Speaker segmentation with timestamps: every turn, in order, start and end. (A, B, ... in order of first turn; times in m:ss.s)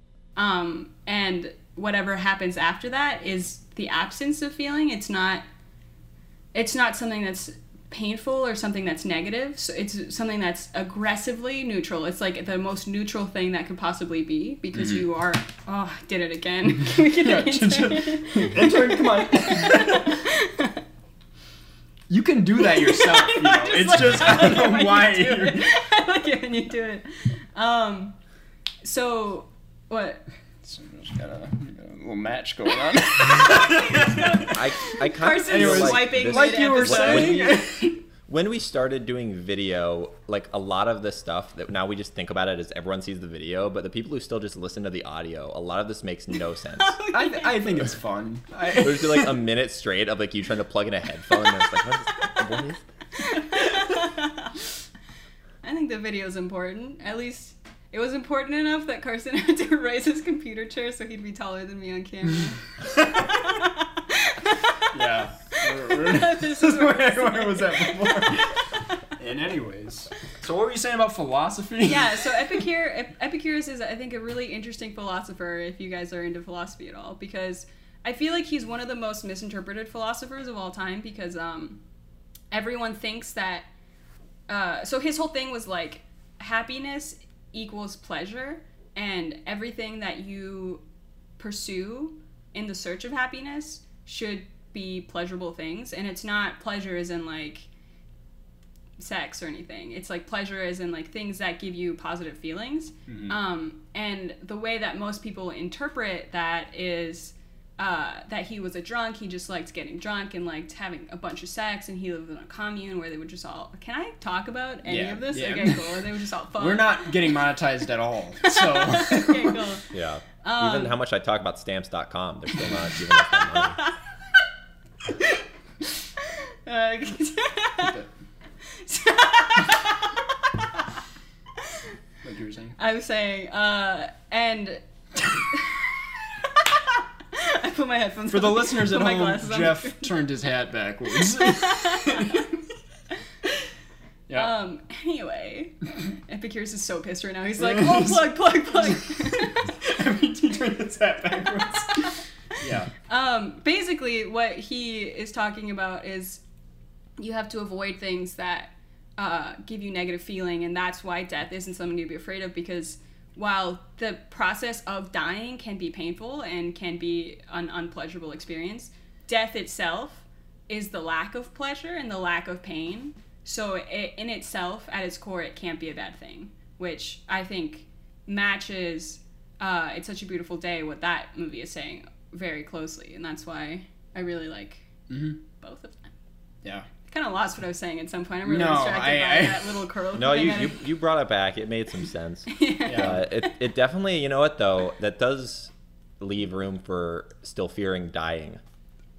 0:00.4-0:05.4 A
0:06.5-0:20.8 A
0:14.7-0:15.0 B
0:16.9-0:20.2 B
0:22.1-0:25.7 B
0:22.6-0:28.1 A
0:28.8-0:30.2 A
0:30.6-0:34.6 B
0:33.4-0:37.6 A
0:34.5-0:37.6 C
0:35.4-0:38.0 B
0:38.3-0:47.0 C
0:46.8-0:47.6 A
0:47.1-0:49.4 B
0:48.7-0:52.8 C
0:53.3-0:54.5 A
0:55.6-1:05.0 A
1:04.9-1:12.6 B
1:05.6-1:09.0 A
1:11.8-1:21.8 A
1:22.5-1:23.7 A
1:24.5-1:30.8 A
1:31.4-1:37.7 A
1:39.0-1:57.3 A
1:43.1-1:43.4 B
1:54.8-1:56.0 B
1:56.6-1:59.6 B
1:58.4-1:59.8 A
1:59.9-2:03.8 C
2:00.4-2:00.9 A
2:06.6-2:08.0 A
2:08.7-2:10.6 A
2:12.2-2:12.8 B
2:12.8-2:15.8 A
2:16.4-2:20.2 A
2:18.3-2:22.6 B
2:21.3-2:22.4 A
2:24.3-2:29.7 A
2:27.6-2:28.3 B
2:28.8-2:32.9 B
2:33.0-2:36.4 A
2:37.2-3:04.9 A
3:05.1-3:05.4 B
3:05.5-3:06.1 A
3:07.0-3:10.9 A
3:08.4-3:09.8 B
3:10.1-3:18.6 C
3:12.5-3:13.2 A
3:12.8-3:13.2 B